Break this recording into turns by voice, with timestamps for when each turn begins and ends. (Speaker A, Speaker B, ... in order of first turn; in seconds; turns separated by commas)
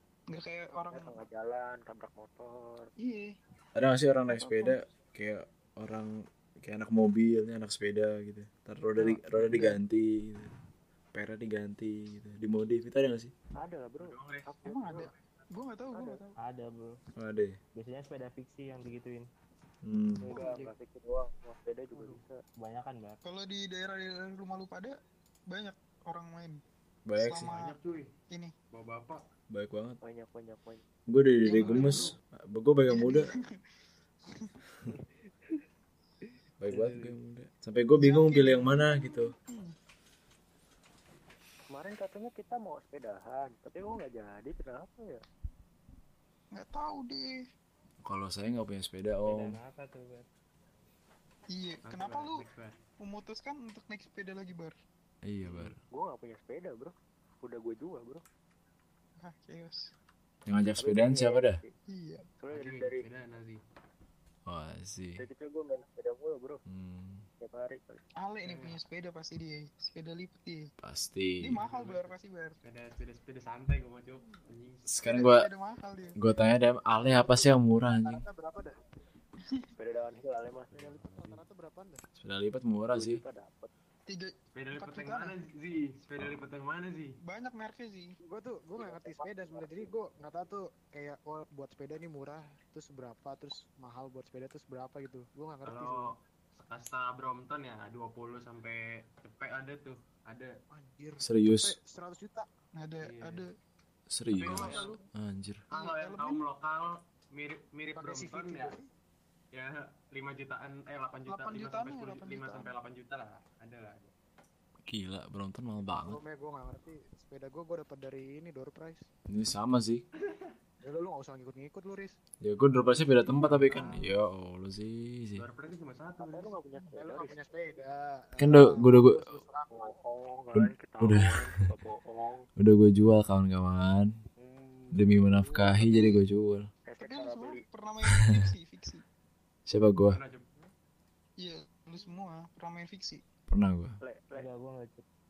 Speaker A: 0.3-1.2, Speaker B: 0.7-2.9, Speaker A: 3.0-3.3, Speaker C: 3.8-10.6, Speaker A: 4.3-4.8, Speaker A: 9.0-9.8, Speaker C: 11.1-13.3, Speaker B: 13.6-15.1, Speaker D: 14.0-14.5, Speaker A: 14.6-16.4, Speaker B: 15.9-16.2, Speaker E: 16.4-17.0, Speaker C: 17.2-17.6, Speaker E: 17.8-19.3, Speaker C: 19.8-20.4, Speaker B: 20.2-22.4, Speaker A: 20.2-20.7, Speaker D: 21.9-22.2, Speaker E: 22.6-23.2, Speaker A: 23.2-24.9, Speaker A: 25.5-26.6, Speaker C: 27.1-27.5, Speaker A: 27.2-27.8, Speaker D: 27.4-28.1, Speaker D: 28.7-29.2, Speaker C: 29.5-30.0, Speaker B: 30.0-30.8, Speaker C: 31.1-33.3, Speaker A: 31.4-32.1, Speaker D: 31.5-32.2, Speaker A: 32.9-33.5, Speaker C: 36.6-39.3, Speaker E: 36.7-37.1, Speaker A: 38.0-39.8, Speaker B: 41.7-45.2, Speaker A: 46.5-47.4, Speaker C: 48.0-49.6, Speaker E: 49.3-50.3, Speaker A: 51.5-52.5, Speaker D: 51.9-52.8, Speaker A: 53.0-54.7, Speaker C: 55.2-55.8, Speaker D: 55.5-55.7, Speaker B: 55.9-58.2, Speaker A: 59.2-59.9, Speaker C: 60.5-61.6, Speaker B: 60.8-61.7, Speaker A: 61.9-62.3, Speaker B: 62.4-63.1, Speaker D: 62.5-63.6, Speaker C: 64.5-65.2, Speaker B: 65.2-66.6, Speaker C: 66.7-67.2, Speaker B: 67.4-68.0, Speaker A: 68.2-70.7, Speaker D: 68.4-68.8, Speaker C: 70.8-71.6, Speaker A: 71.4-72.6, Speaker D: 71.6-74.9, Speaker C: 74.9-75.5, Speaker A: 75.1-76.2, Speaker C: 76.2-78.2, Speaker F: 78.0-78.8, Speaker B: 79.8-80.7, Speaker D: 80.7-81.4, Speaker F: 80.7-82.0, Speaker C: 82.2-83.2, Speaker B: 82.9-83.7, Speaker A: 84.1-85.4, Speaker D: 84.5-87.2, Speaker C: 86.2-86.5, Speaker A: 87.2-88.2, Speaker F: 88.2-96.1, Speaker B: 88.8-89.9, Speaker D: 95.6-100.5, Speaker F: 100.7-102.5, Speaker C: 101.2-101.8, Speaker A: 102.8-103.5, Speaker D: 103.0-103.5, Speaker C: 104.1-105.6, Speaker D: 104.4-105.0, Speaker A: 104.4-105.0, Speaker D: 105.7-108.8, Speaker A: 105.7-106.5, Speaker F: 108.0-108.9, Speaker D: 109.5-114.1, Speaker A: 111.3-112.7, Speaker C: 114.9-116.2, Speaker F: 115.9-119.0, Speaker C: 119.3-120.0, Speaker D: 120.2-120.6, Speaker F: 120.8-122.2, Speaker C: 122.4-125.4, Speaker D: 123.4-123.8, Speaker A: 123.7-124.1, Speaker D: 125.4-126.5, Speaker B: 126.2-127.4, Speaker F: 127.0-129.9, Speaker C: 128.4-129.4, Speaker B: 129.7-132.5, Speaker C: 130.5-131.3, Speaker C: 132.6-134.1, Speaker B: 134.4-135.0, Speaker C: 134.9-136.7, Speaker F: 135.2-135.9, Speaker B: 136.9-137.6, Speaker A: 137.0-139.0, Speaker C: 138.1-138.4, Speaker C: 139.7-140.2, Speaker D: 140.1-140.5, Speaker A: 141.4-143.2, Speaker C: 143.5-143.9, Speaker B: 144.0-144.5, Speaker E: 144.3-145.1